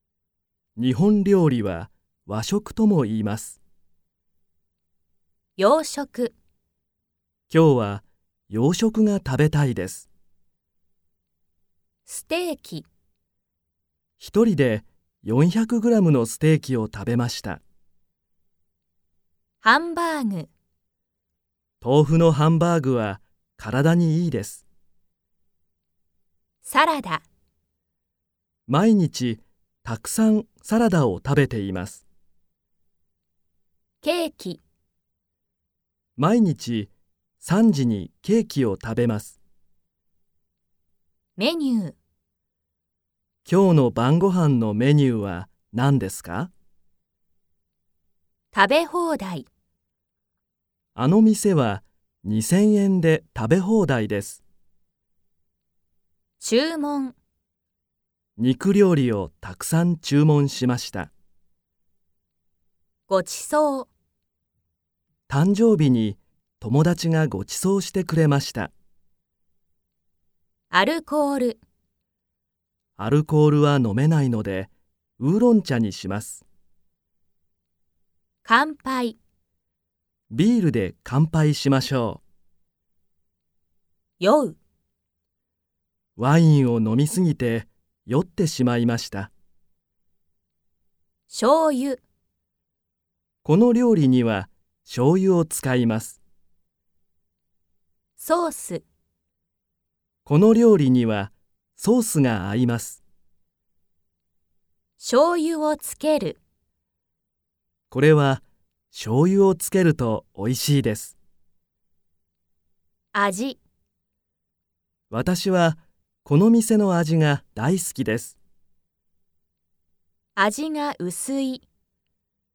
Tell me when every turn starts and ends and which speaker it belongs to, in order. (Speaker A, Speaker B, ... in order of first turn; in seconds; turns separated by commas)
Speaker A: 0.8-3.6, Speaker B: 5.6-6.3, Speaker A: 7.5-10.1, Speaker B: 12.1-12.9, Speaker A: 14.2-17.6, Speaker B: 19.6-20.5, Speaker A: 21.8-24.7, Speaker B: 26.6-27.2, Speaker A: 28.7-32.0, Speaker B: 34.0-34.6, Speaker A: 36.2-39.4, Speaker B: 41.4-42.0, Speaker A: 43.5-46.5, Speaker B: 48.5-49.5, Speaker A: 51.0-54.4, Speaker B: 56.4-57.2, Speaker A: 58.4-61.1, Speaker B: 63.1-63.9, Speaker A: 65.3-68.7, Speaker B: 70.7-71.6, Speaker A: 73.0-76.4, Speaker B: 78.5-79.2, Speaker A: 80.3-82.2, Speaker B: 84.2-84.6, Speaker A: 86.2-89.3, Speaker B: 91.3-92.0, Speaker A: 93.4-96.2, Speaker B: 98.2-98.8, Speaker A: 100.2-103.0, Speaker B: 105.0-106.4, Speaker A: 107.9-111.2, Speaker B: 113.1-113.6, Speaker A: 115.1-118.4, Speaker B: 120.4-121.7